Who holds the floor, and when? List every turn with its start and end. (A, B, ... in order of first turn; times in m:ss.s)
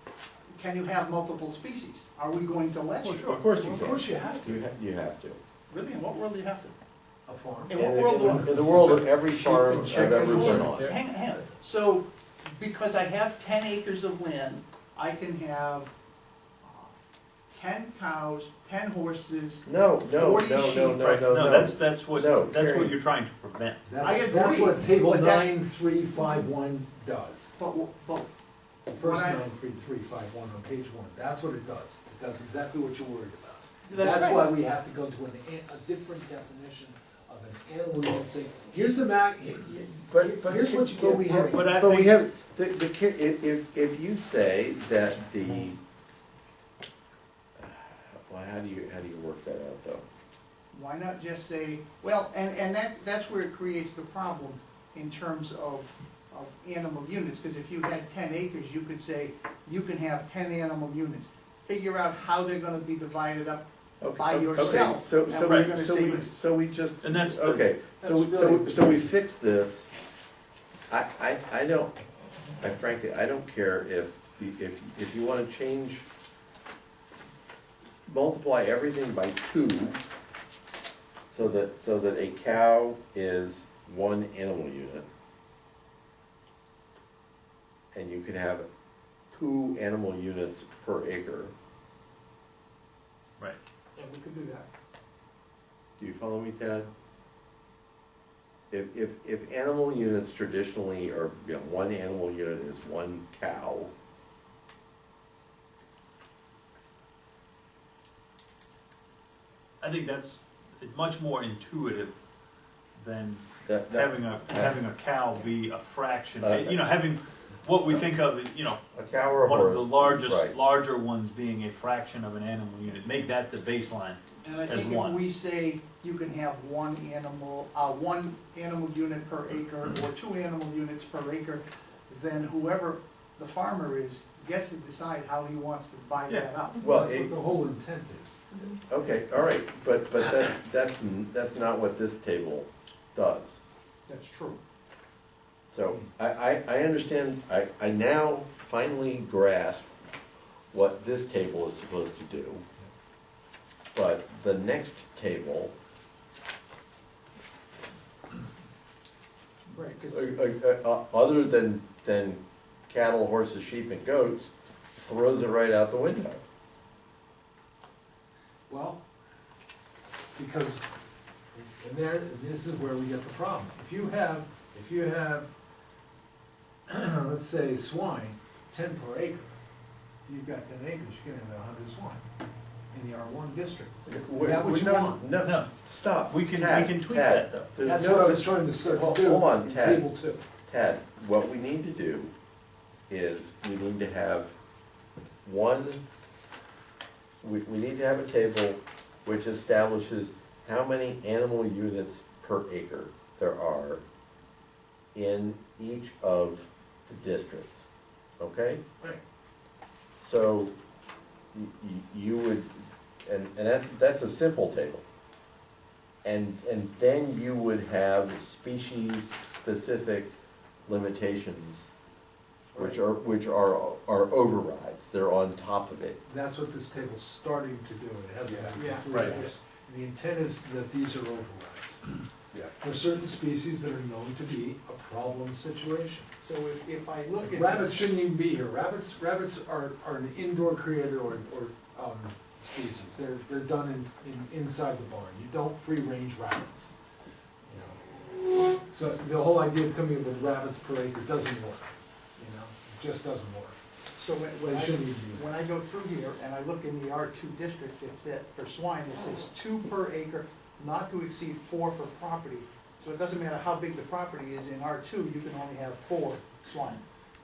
0:00.5-0:04.0 A
0:03.0-0:03.4 B
0:03.3-0:05.4 C
0:03.6-0:04.7 D
0:05.7-0:06.8 A
0:07.3-0:11.0 D
0:07.7-0:08.6 A
0:07.7-0:10.9 C
0:10.2-0:15.9 A
0:16.6-0:17.0 A
0:17.5-0:21.0 A
0:19.6-0:23.0 C
0:21.0-0:24.0 B
0:23.9-0:27.6 D
0:24.0-0:25.5 A
0:27.6-0:28.3 A
0:28.9-0:41.7 D
0:28.9-0:29.4 A
0:33.9-0:34.5 A
0:39.6-0:45.8 C
0:41.5-0:42.2 B
0:47.6-0:50.0 C
0:50.7-1:06.3 A
1:04.0-1:09.9 C
1:04.6-1:04.9 B
1:05.4-1:05.7 B
1:07.0-1:07.7 B
1:08.0-1:09.0 A
1:10.9-1:12.0 C
1:12.6-1:16.1 C
1:18.1-1:20.0 C
1:21.3-1:25.0 C
1:27.9-1:28.7 C
1:29.3-1:31.5 C
1:34.0-1:34.7 A
1:36.0-1:36.9 C
1:38.7-1:43.9 C
1:49.8-1:52.2 B
1:53.0-1:58.8 B
1:53.7-1:54.8 C
1:56.4-1:56.8 C
1:58.9-2:00.6 C
1:59.4-2:05.2 B
2:04.4-2:16.8 A
2:16.8-2:17.3 C
2:16.8-2:18.4 D
2:18.8-2:23.6 C
2:24.1-2:24.6 A
2:25.7-2:29.9 C
2:30.7-2:32.6 C
2:33.9-2:35.7 C
2:39.7-2:40.2 A
2:40.1-2:46.4 C
2:48.7-2:49.0 D
2:50.4-2:50.8 D
2:51.5-2:55.5 D
2:56.9-2:59.6 D
3:00.3-3:02.2 D
3:02.9-3:05.2 D
3:04.1-3:10.1 C
3:05.4-3:05.7 B
3:06.3-3:07.7 B
3:07.8-3:10.5 D
3:10.7-3:12.3 C
3:13.1-3:14.6 C
3:15.4-3:16.0 C
3:17.4-3:24.0 C
3:25.2-3:27.9 C
3:28.4-3:28.8 C
3:30.2-3:30.8 C
3:31.5-3:35.0 C
3:36.2-3:40.3 C
3:40.9-3:41.9 C
3:42.8-3:46.2 C
3:46.2-3:52.2 D
3:48.6-3:49.4 C
3:48.8-3:49.6 A
3:52.8-3:56.3 D
3:56.4-3:58.0 A
3:57.4-4:07.0 D
4:07.7-4:08.0 D
4:08.7-4:13.8 D
4:14.2-4:27.0 A
4:14.6-4:15.5 D